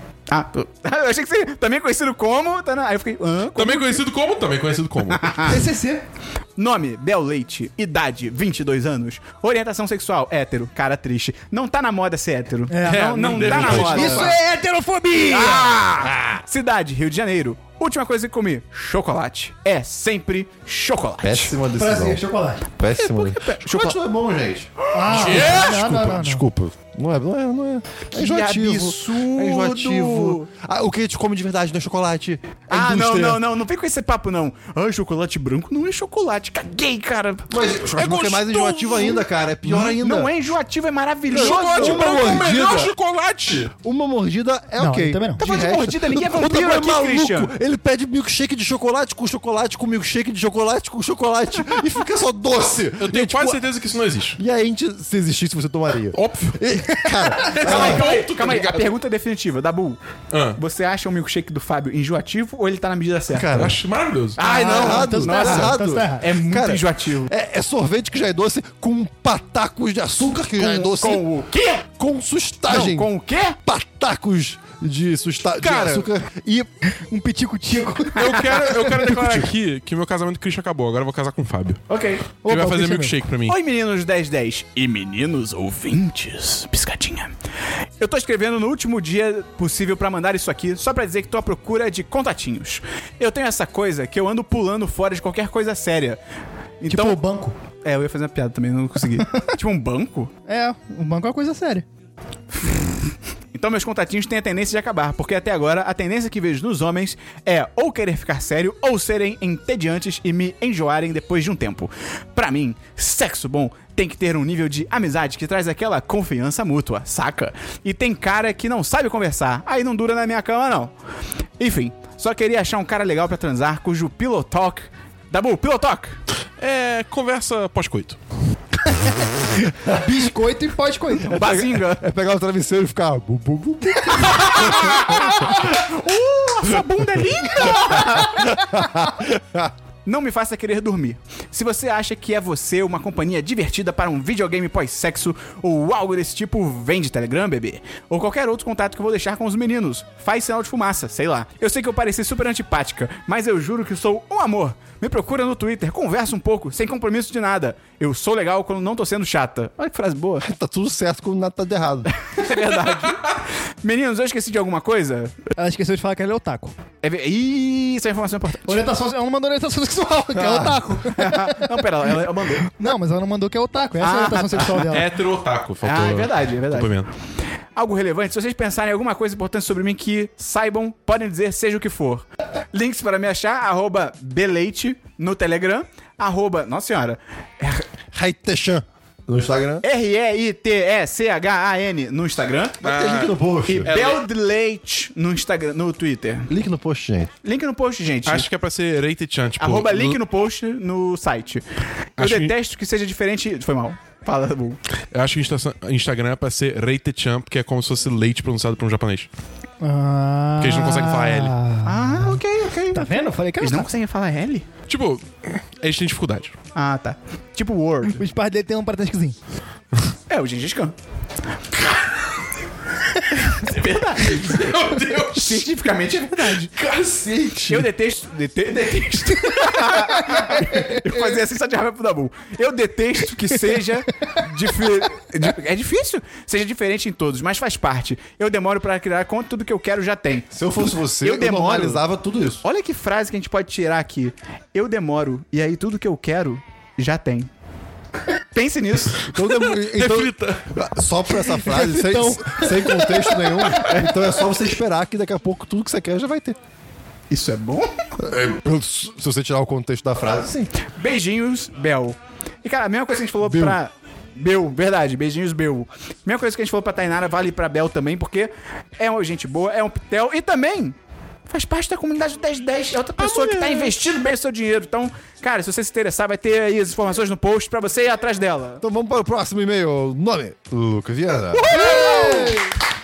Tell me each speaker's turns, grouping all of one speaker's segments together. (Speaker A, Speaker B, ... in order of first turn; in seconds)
Speaker A: 0.3-4.0, 5.1-5.5, 6.6-14.3, 15.3-21.5, 22.9-24.0, 24.8-25.7, 28.1-30.5, 32.7-37.5, 39.7-42.4, 45.4-47.5, 57.6-60.0, 60.5-63.5, 64.4-67.3, 70.6-71.8, 72.7-73.6, 81.9-82.3, 83.5-87.3, 88.0-96.2, 96.8-97.2, 97.8-100.3, 102.5-120.9, 121.6-126.2, 131.2-132.1, 134.3-138.6, 140.1-160.5, 162.2-165.3, 167.0-168.8, 171.1-172.7, 174.0-175.0, 175.8-177.1, 177.8-187.8, 189.8-192.9, 193.7-196.5, 197.4-198.5, 199.6-201.6, 202.2-204.8, 211.8-214.7, 216.7-218.2, 220.3-220.9, 223.4-226.7, 227.7-240.6, 241.2-242.0, 242.6-247.5, 248.5-249.3, 253.9-254.2, 257.3-257.9, 260.9-270.9, 271.5-278.8, 281.6-282.6
Speaker B: 3.5-5.6, 12.8-14.3, 25.1-25.8, 37.9-39.1, 41.3-43.7, 53.0-54.4, 56.1-56.6, 57.5-58.9, 60.3-60.6, 63.5-64.4, 75.6-76.0, 78.2-81.8, 82.4-83.6, 126.6-128.2, 162.8-163.1, 174.7-177.1, 192.8-194.2, 198.2-200.2, 202.2-202.5, 205.1-209.3, 210.6-211.5, 214.9-216.6, 224.2-225.6, 226.7-227.8, 249.5-250.6, 273.3-273.8
Speaker C: 5.4-6.0, 12.7-13.0, 13.7-15.7, 21.8-22.6, 24.9-26.4, 44.8-45.4, 64.4-66.2, 76.9-79.1, 82.4-83.2, 96.8-97.5, 100.5-101.8, 129.8-131.4, 165.6-166.7, 168.7-171.7, 172.8-175.1, 209.8-212.3, 212.9-213.9, 218.1-219.3, 229.8-231.1, 251.7-253.3
Speaker D: 13.4-14.3, 21.2-22.2, 22.8-33.4, 37.5-40.3, 41.3-42.9, 43.8-53.7, 54.4-58.1, 63.3-63.8, 64.6-71.2, 71.9-73.1, 73.6-76.7, 131.3-135.5, 137.6-139.7, 160.4-162.1, 170.4-170.8, 188.1-189.8, 192.8-193.9, 196.5-197.3, 240.5-242.6, 249.3-256.6, 258.2-260.7, 263.4-263.8, 278.8-282.6